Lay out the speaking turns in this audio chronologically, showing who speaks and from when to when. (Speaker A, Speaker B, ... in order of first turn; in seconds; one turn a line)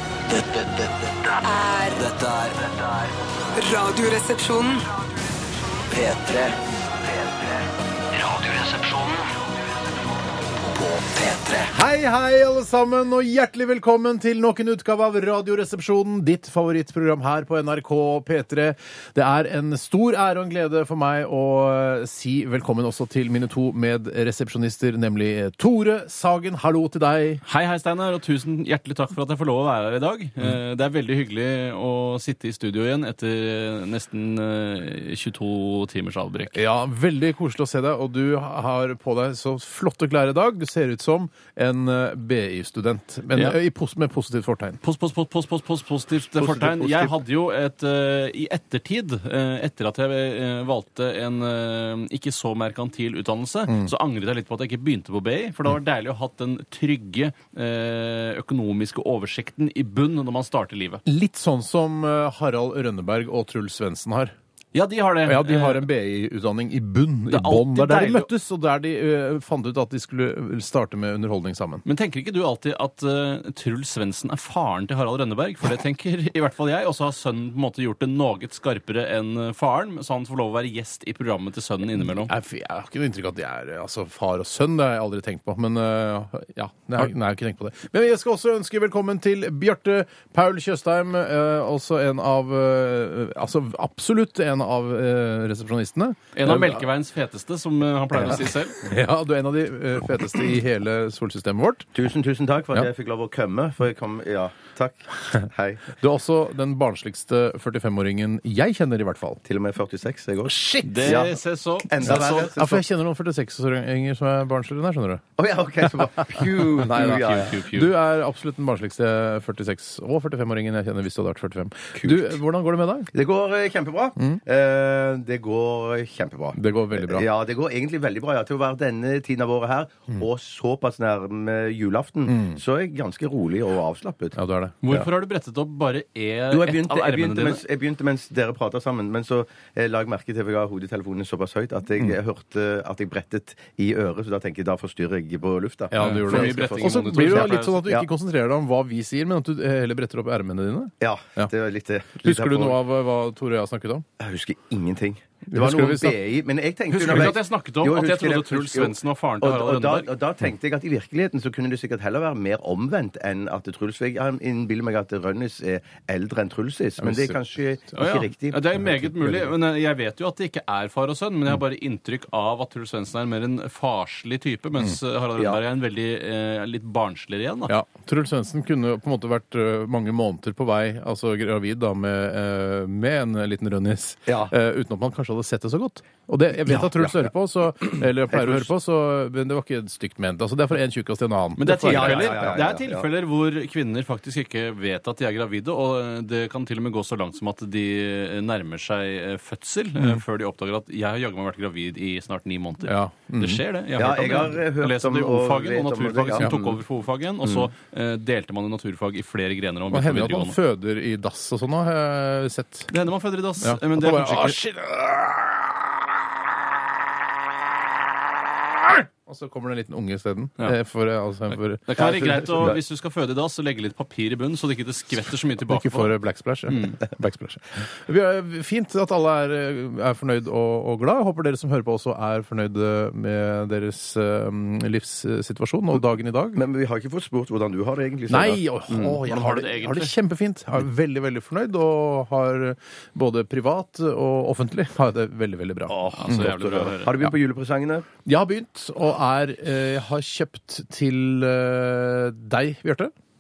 Speaker A: 0.3-1.0
Speaker B: 1.4-2.1
Speaker A: 2.0-3.1
Speaker B: 3.5-4.8
Speaker A: 5.9-6.6
Speaker A: 7.1-7.5
Speaker A: 8.1-9.2
Speaker A: 10.7-11.7
Speaker C: 11.6-27.4
Speaker D: 27.4-36.6
Speaker C: 36.5-44.8
Speaker D: 44.8-61.0
Speaker E: 46.4-47.1
Speaker C: 61.0-64.3
Speaker D: 64.7-65.8
Speaker C: 65.2-71.8
Speaker D: 67.3-68.3
Speaker D: 71.8-82.3
Speaker C: 82.0-96.8
Speaker D: 96.3-98.8
Speaker C: 98.1-101.9
Speaker E: 101.9-105.9
Speaker C: 106.0-109.4
Speaker E: 109.5-112.8
Speaker C: 110.5-111.2
Speaker D: 110.8-112.5
Speaker C: 112.0-115.2
Speaker E: 115.4-117.6
Speaker C: 115.9-123.1
Speaker D: 116.9-117.9
Speaker E: 122.0-122.3
Speaker E: 123.1-134.3
Speaker C: 126.5-127.3
Speaker C: 132.3-132.6
Speaker C: 134.3-135.1
Speaker D: 134.8-137.6
Speaker E: 136.5-148.1
Speaker C: 145.9-151.5
Speaker D: 146.0-147.8
Speaker E: 151.0-152.8
Speaker C: 152.2-154.0
Speaker E: 154.2-168.6
Speaker C: 155.5-156.2
Speaker D: 156.9-160.1
Speaker C: 157.0-157.3
Speaker C: 167.0-167.3
Speaker D: 167.9-177.8
Speaker C: 177.7-192.6
Speaker E: 184.3-184.5
Speaker E: 186.7-187.2
Speaker E: 187.9-188.7
Speaker D: 191.6-210.6
Speaker E: 191.8-193.1
Speaker C: 202.8-203.6
Speaker E: 204.0-206.8
Speaker C: 209.9-212.9
Speaker D: 212.9-214.6
Speaker C: 213.6-215.9
Speaker C: 218.7-222.7
Speaker D: 221.8-226.2
Speaker E: 221.9-222.8
Speaker C: 225.6-236.6
Speaker D: 226.7-227.0
Speaker E: 236.5-239.2
Speaker C: 238.3-246.5
Speaker D: 239.2-240.2
Speaker E: 245.9-248.1
Speaker D: 246.1-247.2
Speaker C: 248.2-253.1